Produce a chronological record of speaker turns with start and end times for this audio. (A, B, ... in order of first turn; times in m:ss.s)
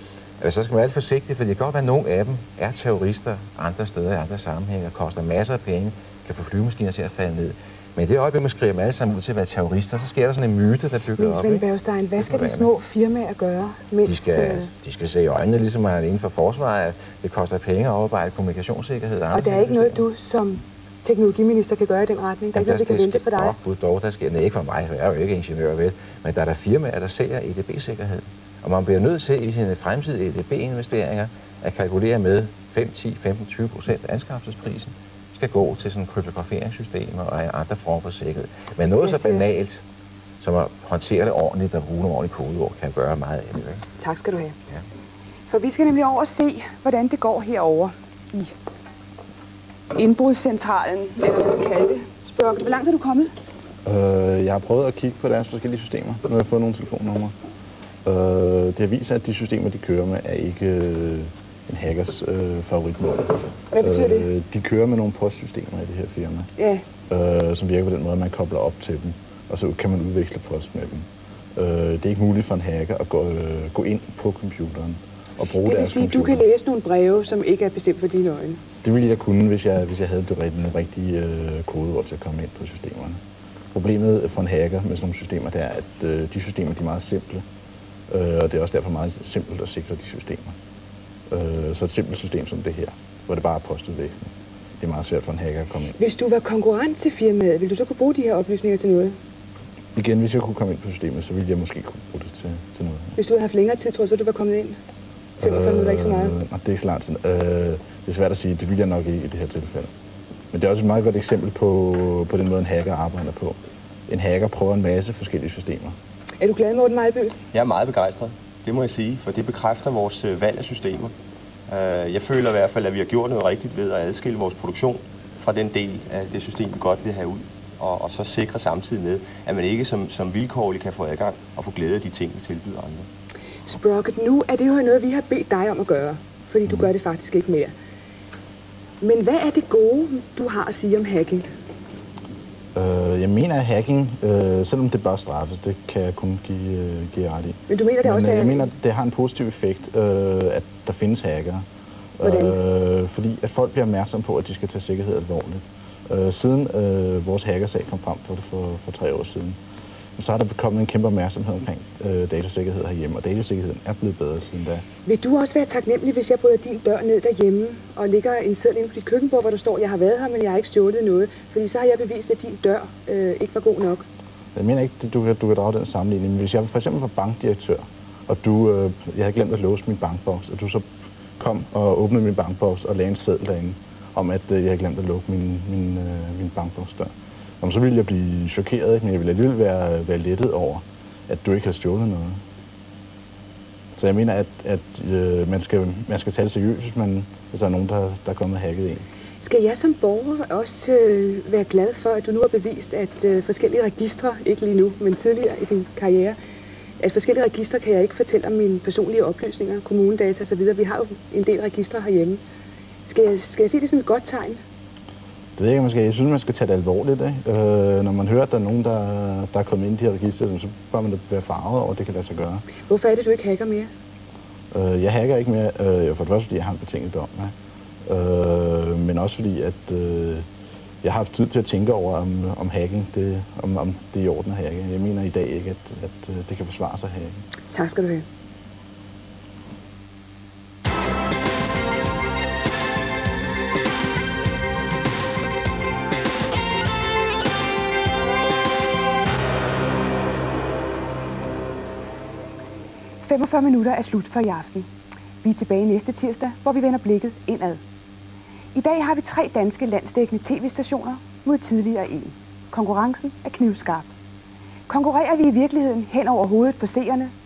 0:00.4-0:11.6 A
0:11.2-0:14.7 B
0:12.2-0:12.7 A
0:14.0-0:20.0 A
0:19.3-0:23.6 B
0:22.5-0:39.8 A
0:39.0-0:39.4 B
0:40.4-0:43.8 A
0:44.0-0:44.5 B
0:45.5-0:48.5 B
0:49.9-0:53.3 B
0:53.8-0:57.3 C
0:58.0-1:06.5 C
1:03.7-1:04.3 B
1:06.6-1:06.8 B
1:07.1-1:16.4 C
1:15.6-1:18.6 B
1:18.8-1:23.2 C
1:23.7-1:27.4 C
1:28.1-1:30.6 C
1:31.3-1:35.9 C
1:36.0-1:39.2 B
1:39.9-1:43.1 C
1:43.2-1:44.8 B
1:45.4-1:49.9 C
1:45.4-1:46.3 B
1:50.5-1:56.0 C
1:56.4-1:57.4 B
1:57.5-2:01.1 D
2:01.7-2:13.1 D
2:13.6-2:17.7 B
2:19.0-2:21.5 B
2:22.7-2:31.6 C
2:27.7-2:28.7 B
2:32.2-2:39.6 C
2:32.2-2:32.6 B
2:40.2-2:44.8 C
2:45.0-2:54.0 B
2:54.5-3:12.4 C
3:14.0-3:19.0 C
3:19.4-3:26.4 B
3:27.0-3:32.4 B
3:33.0-3:34.6 B
3:35.6-3:42.6 C
3:42.8-3:43.9 B
3:44.7-3:50.5 C
3:51.0-3:57.4 C
3:57.7-3:58.2 B
4:13.2-4:14.9 B
4:15.4-4:17.8 B
4:18.7-4:24.1 B
4:24.9-4:27.3 B